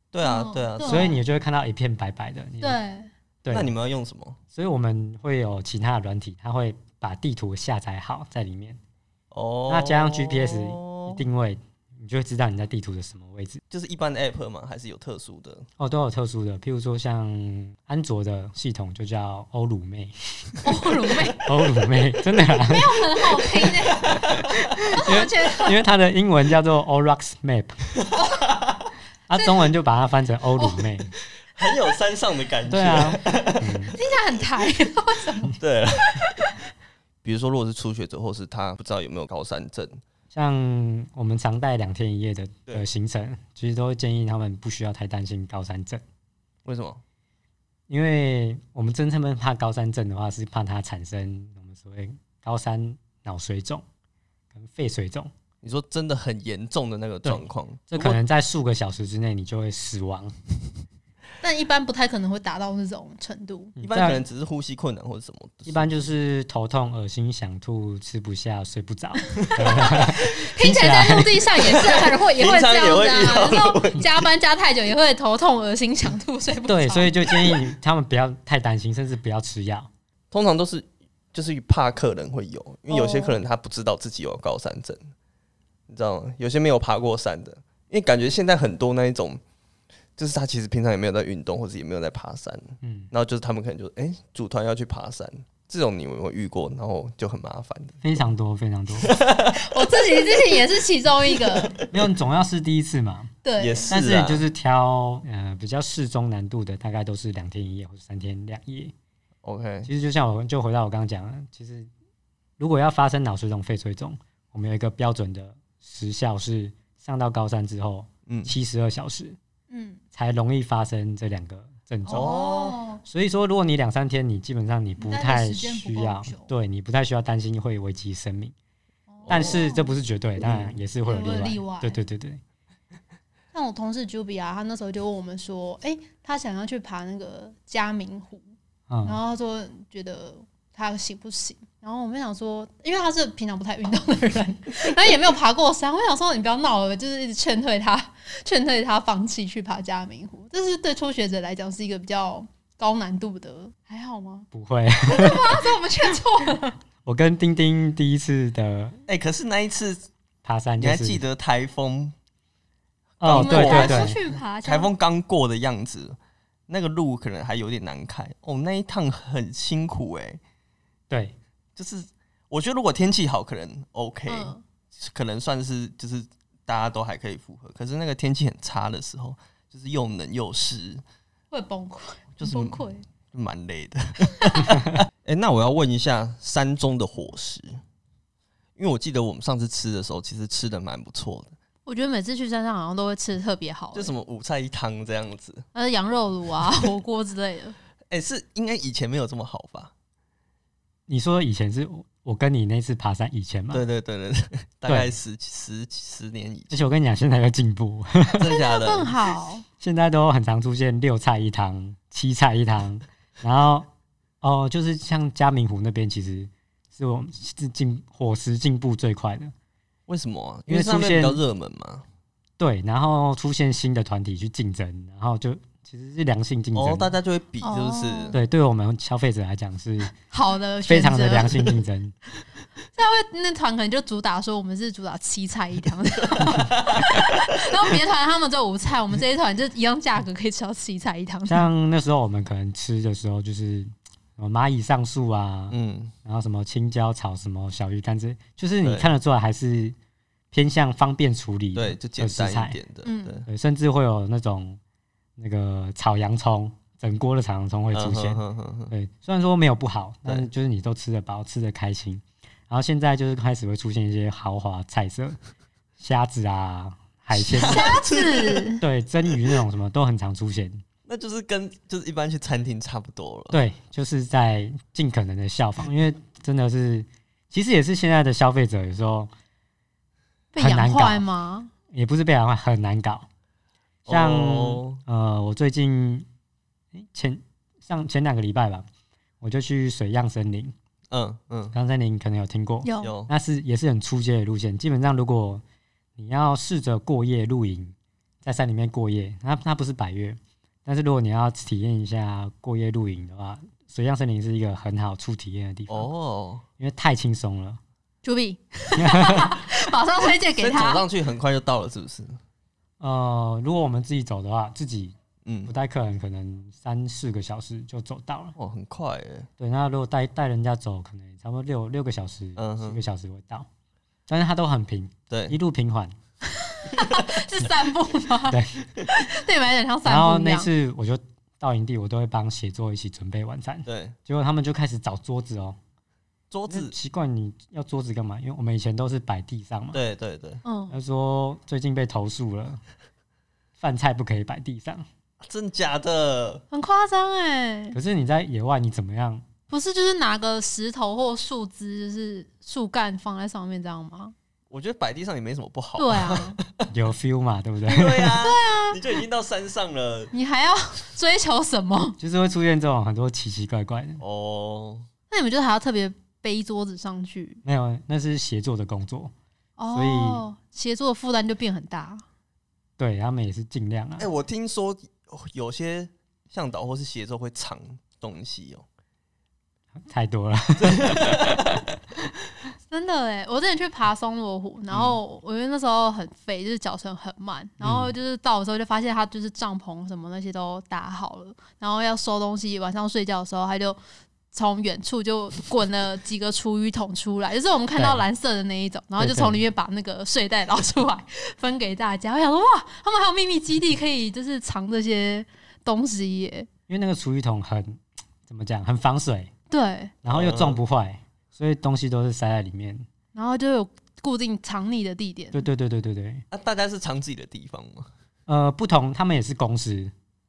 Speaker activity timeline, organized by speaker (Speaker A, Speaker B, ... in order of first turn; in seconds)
Speaker A: 0.1-1.2, 3.5-4.4, 9.3-11.2, 13.7-15.7, 24.1-24.4, 31.4-34.1, 35.6-36.3, 37.2-40.0, 46.6-47.0, 55.6-58.2, 63.8-65.9, 69.6-70.0, 71.6-74.3, 80.3-85.1, 85.9-89.4, 90.2-98.0, 99.0-99.8, 101.4-101.9, 103.6-104.5, 109.4-109.9, 118.3-118.5, 122.1-122.8, 129.2-129.6, 130.4-130.8, 159.1-160.1, 160.8-162.2, 163.2-170.4, 171.8-181.0, 182.4-187.8, 188.8-191.6, 193.9-195.7, 198.1-199.9, 203.7-206.8, 208.3-209.2, 220.1-222.1, 226.8-228.4, 236.6-237.0, 245.7-246.1, 248.8-249.1, 251.8-253.5, 257.9-258.9, 267.4-268.7, 271.1-273.6, 284.1-285.0, 291.1-291.8, 293.0-293.3, 305.9-306.6, 310.6-312.4, 315.4-315.7, 318.6-319.5, 322.6-323.0, 325.3-325.6, 327.0-327.2, 333.9-334.1, 336.5-336.9, 339.9-340.6, 345.4-346.6, 354.7-356.9, 357.9-360.3, 364.2-365.1, 374.2-378.9, 380.8-381.8, 384.9-385.2, 410.3-410.8, 416.5-418.1
Speaker B: 0.2-1.2, 2.6-3.1, 20.6-21.5, 22.6-24.2, 24.9-25.8, 28.1-28.5, 29.4-29.7, 30.6-30.9, 34.0-36.6, 61.4-63.7, 69.4-77.3, 82.9-83.4, 99.5-101.8, 103.4-103.9, 119.7-120.0, 122.1-123.0, 125.0-126.5, 129.1-130.0, 131.1-132.0, 133.5-138.4, 139.1-154.5, 155.1-156.8, 163.3-164.9, 174.3-174.6, 181.5-183.1, 184.4-184.7, 191.9-194.1, 195.7-197.8, 208.4-209.7, 227.6-228.4, 230.3-231.7, 232.9-241.7, 253.1-253.4, 267.6-268.8, 280.5-281.7, 292.8-293.1, 308.2-311.0, 326.6-330.7, 340.6-341.0, 346.7-348.0, 349.7-354.3, 356.0-356.6, 358.4-359.2, 360.3-362.2, 365.3-367.6, 369.8-372.2, 382.9-394.0, 394.5-406.7, 409.7-410.1, 413.4-415.6
Speaker C: 0.8-2.8, 3.4-3.7, 4.5-8.8, 9.7-13.6, 15.8-20.6, 21.4-23.1, 24.1-27.8, 29.3-31.1, 32.7-33.9, 40.3-46.0, 47.9-53.8, 54.5-55.3, 57.2-60.3, 63.8-64.2, 65.7-71.5, 76.7-79.9, 92.8-93.1, 98.0-99.2, 101.9-103.3, 103.9-108.9, 109.8-111.9, 112.6-119.4, 120.1-122.4, 123.0-128.5, 129.3-132.4, 138.9-139.2, 154.5-155.7, 157.1-159.0, 160.4-161.2, 163.2-164.2, 171.1-171.4, 201.1-203.8, 204.9-205.2, 206.7-208.4, 209.8-213.9, 214.4-219.5, 220.7-221.4, 222.6-227.1, 228.3-230.1, 230.9-232.1, 241.5-249.9, 250.5-252.8, 253.5-254.8, 255.4-265.4, 266.0-267.9, 268.8-270.8, 273.5-279.3, 280.6-281.2, 281.9-283.3, 284.1-286.3, 286.9-288.9, 289.4-290.7, 291.7-295.6, 296.2-306.1, 306.8-307.8, 309.0-309.6, 313.0-315.1, 315.7-318.6, 319.6-323.7, 324.3-326.1, 328.5-328.8, 330.1-335.8, 336.7-340.0, 340.9-342.8, 343.8-345.1, 347.9-349.4, 356.9-358.4, 362.2-364.2, 367.6-369.3, 369.9-370.4, 373.0-374.3, 380.1-381.7, 387.8-388.1, 398.0-398.2, 399.2-399.6, 406.9-409.5, 410.2-413.1, 415.5-416.4, 418.5-420.1